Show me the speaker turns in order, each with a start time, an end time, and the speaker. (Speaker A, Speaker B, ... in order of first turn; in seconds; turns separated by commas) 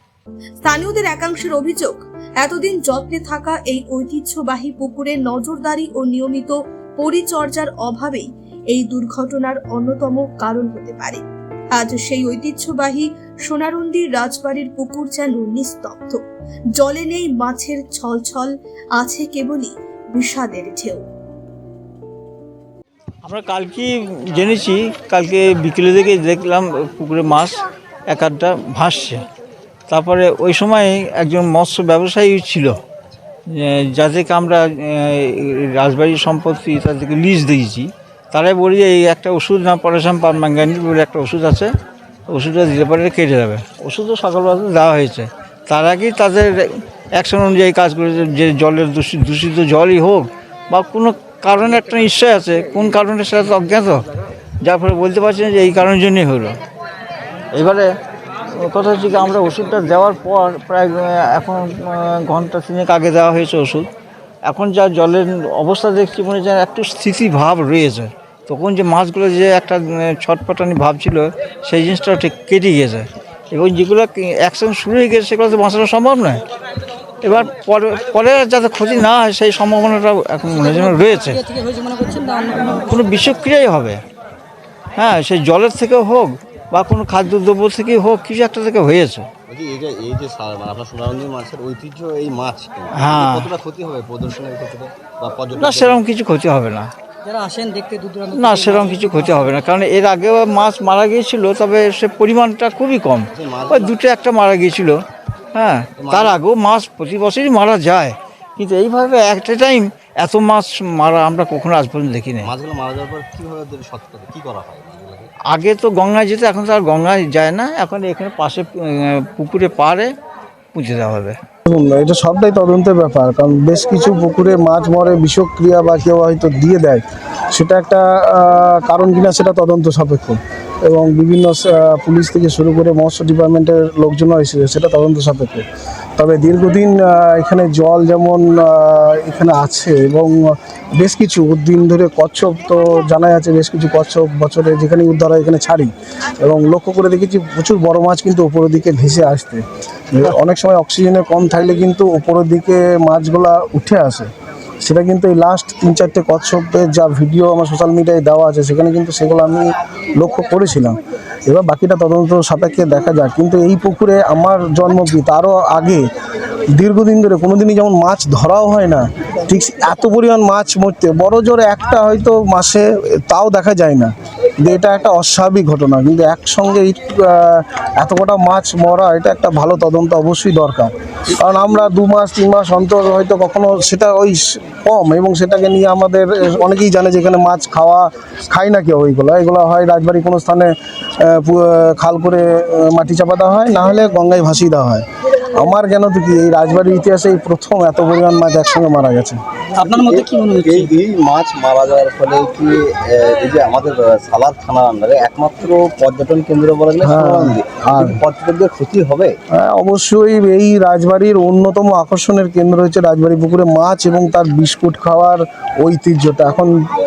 Speaker A: 0.6-11.2, Speaker A: 11.7-16.2, Speaker A: 16.8-21.0, Speaker B: 23.2-29.2, Speaker B: 29.9-32.8, Speaker B: 33.5-41.7, Speaker B: 42.3-54.0, Speaker B: 54.6-56.6, Speaker B: 57.5-57.9, Speaker B: 58.5-63.9, Speaker B: 64.4-76.4, Speaker B: 77.2-81.5, Speaker C: 80.7-82.9, Speaker B: 82.5-84.0, Speaker B: 85.0-89.3, Speaker D: 89.5-96.1, Speaker B: 92.9-93.5, Speaker B: 95.6-96.9, Speaker C: 97.2-99.5, Speaker B: 98.3-105.0, Speaker D: 103.3-104.0, Speaker B: 105.5-112.5, Speaker D: 106.0-106.4, Speaker D: 112.4-115.3, Speaker B: 115.5-120.1, Speaker B: 120.7-121.4, Speaker E: 121.7-135.6, Speaker E: 136.2-154.3, Speaker E: 154.8-166.1, Speaker E: 166.7-199.4, Speaker D: 199.8-209.3, Speaker C: 199.8-200.9, Speaker E: 207.0-208.2, Speaker E: 209.5-216.8